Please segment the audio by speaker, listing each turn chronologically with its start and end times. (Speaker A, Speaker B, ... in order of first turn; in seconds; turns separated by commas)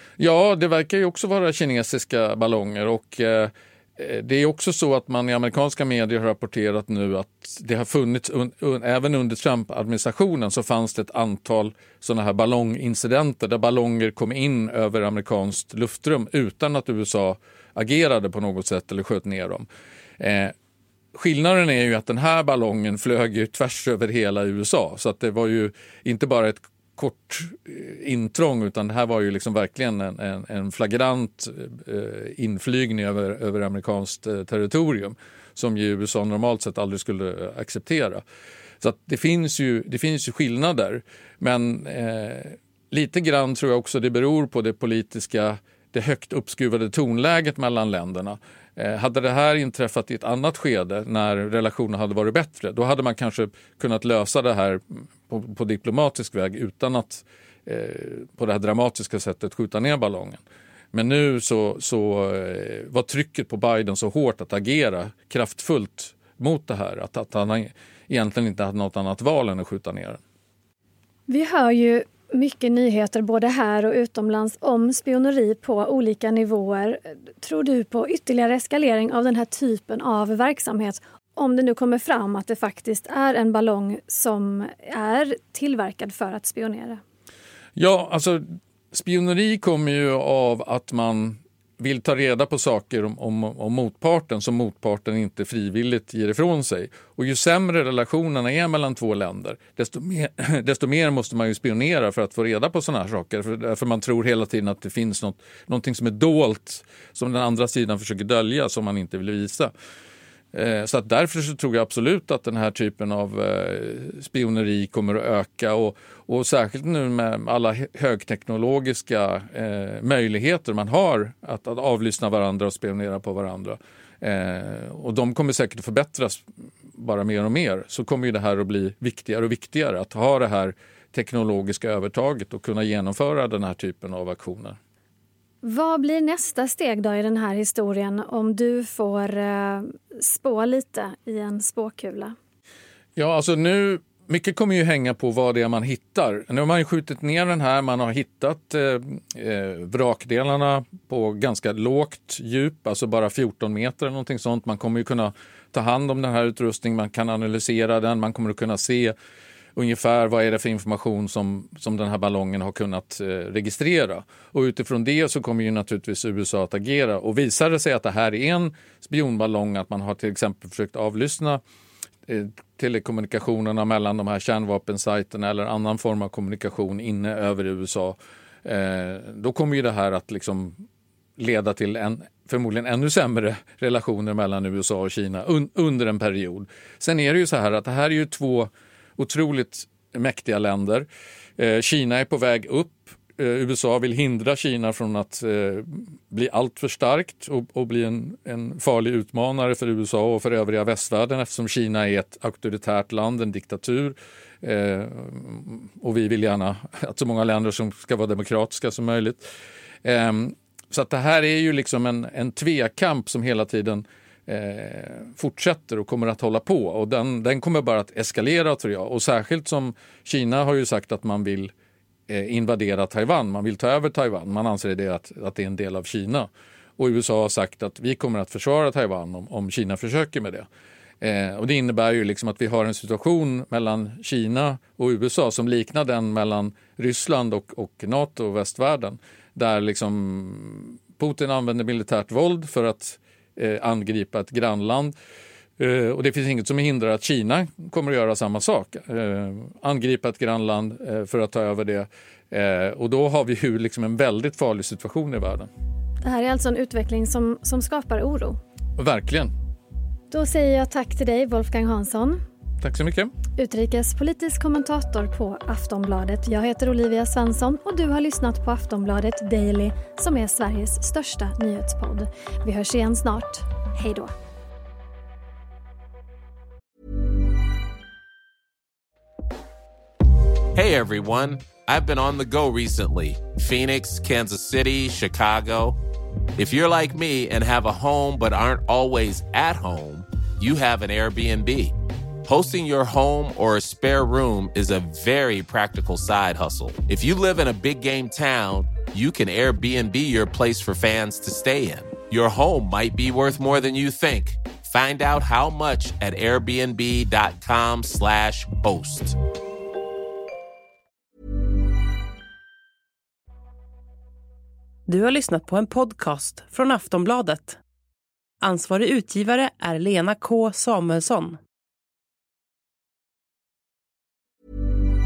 Speaker A: 0.2-19.6, Speaker A: 20.2-20.5, Speaker A: 21.1-38.2, Speaker A: 38.8-60.4, Speaker A: 60.9-70.2, Speaker B: 71.3-87.0, Speaker A: 87.8-109.7, Speaker A: 110.5-126.4, Speaker A: 127.0-134.8, Speaker B: 135.6-142.3, Speaker A: 143.2-159.1, Speaker A: 159.8-171.6, Speaker A: 172.3-180.8, Speaker A: 181.4-191.1, Speaker A: 191.6-209.4, Speaker A: 210.0-221.7, Speaker A: 222.3-230.7, Speaker A: 231.2-245.1, Speaker A: 245.8-255.7, Speaker B: 256.2-258.6, Speaker A: 259.0-259.5, Speaker B: 260.3-262.4, Speaker A: 262.8-263.3, Speaker B: 263.6-274.3, Speaker C: 280.7-286.0, Speaker C: 286.6-309.4, Speaker D: 315.1-317.8, Speaker D: 318.6-321.6